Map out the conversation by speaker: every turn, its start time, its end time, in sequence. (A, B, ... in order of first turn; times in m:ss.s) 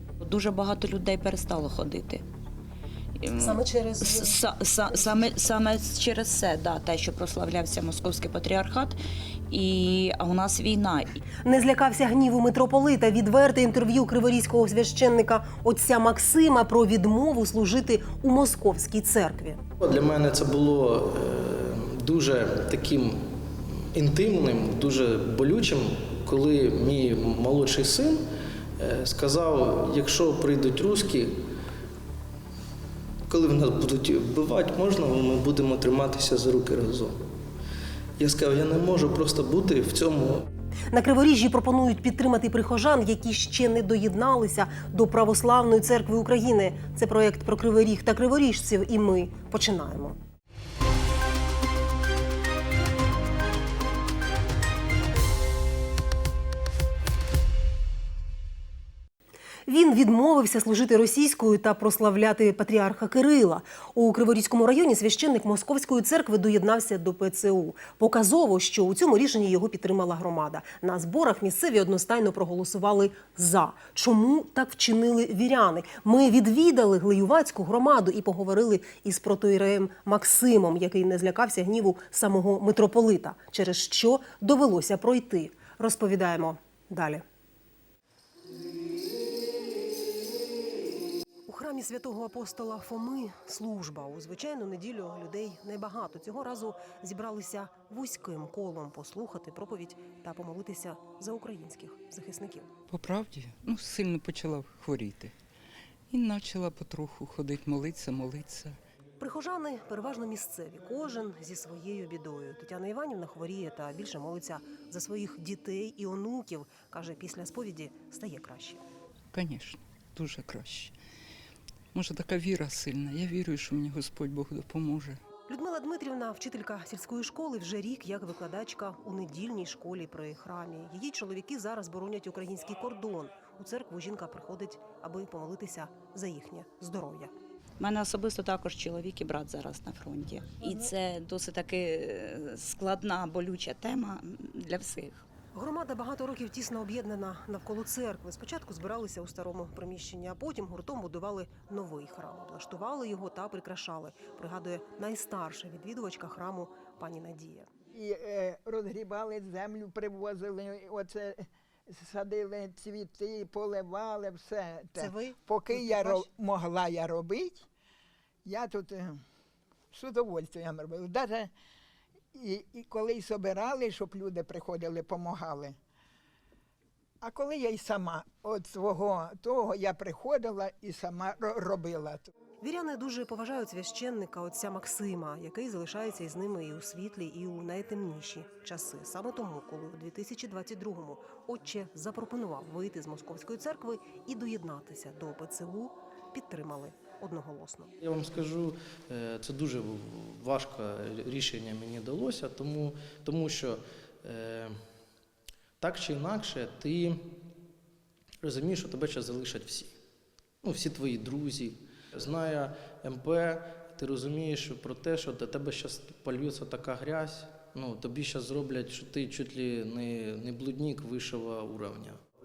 0:00.2-0:02.2 A
0:03.2-0:09.0 A
0:03.4-0:04.4 B
0:09.5-0:11.2 A
0:11.4-0:19.6 B
0:19.8-0:28.2 C
0:28.8-0:31.4 C
0:33.3-0:37.2 C
0:38.2-0:40.5 C
0:40.9-0:50.2 B
0:59.7-1:27.2 B
1:31.5-1:42.7 B
1:42.9-1:45.3 D
1:46.1-1:48.8 D
1:49.2-1:58.8 B
1:59.3-2:00.9 D
2:01.9-2:05.2 D
2:05.5-2:17.3 B
2:17.8-2:25.2 A
2:25.5-2:37.7 B
2:37.9-2:47.7 E
2:45.0-2:46.3 B
2:48.4-2:49.2 E
2:49.9-2:51.5 E
2:52.3-2:55.8 E
2:57.2-3:02.3 E
3:02.6-3:17.9 B
3:18.0-3:24.8 C
3:25.8-3:27.4 C
3:28.4-3:30.0 C
3:30.6-3:42.2 C